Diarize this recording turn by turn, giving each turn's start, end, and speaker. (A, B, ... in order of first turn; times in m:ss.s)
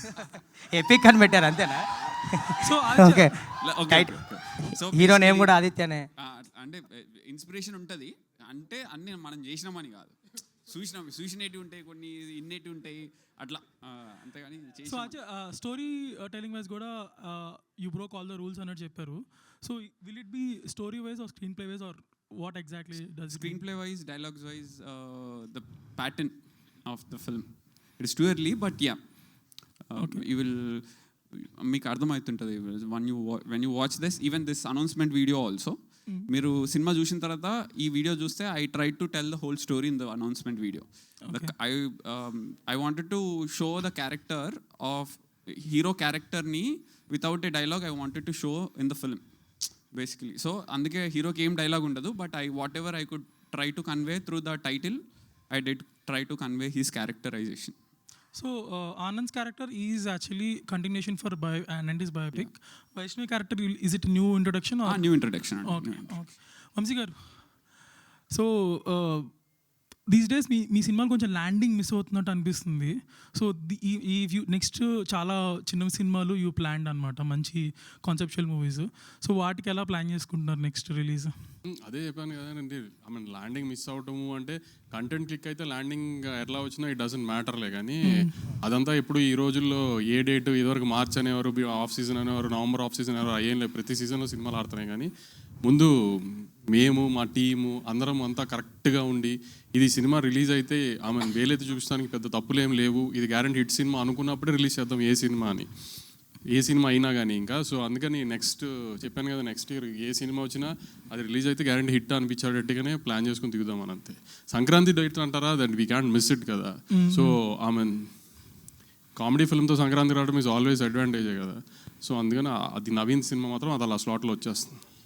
0:00.2-0:04.2 A
0:02.6-0:03.3 B
0:03.6-0:05.5 C
0:04.9-0:06.0 A
0:06.2-0:15.2 C
0:14.8-0:23.6 B
0:23.1-0:29.0 C
0:29.5-0:35.8 C
0:30.0-0:30.2 B
0:36.3-0:49.2 C
0:41.2-0:41.5 B
0:49.9-0:55.0 C
0:55.5-0:57.8 C
0:58.3-1:07.8 B
1:04.9-1:06.3 C
1:08.3-1:09.4 B
1:10.0-1:21.5 B
1:21.9-1:35.1 D
1:28.0-1:28.3 B
1:35.6-1:45.7 D
1:46.5-1:58.1 D
1:56.9-1:57.4 B
1:59.2-2:04.8 D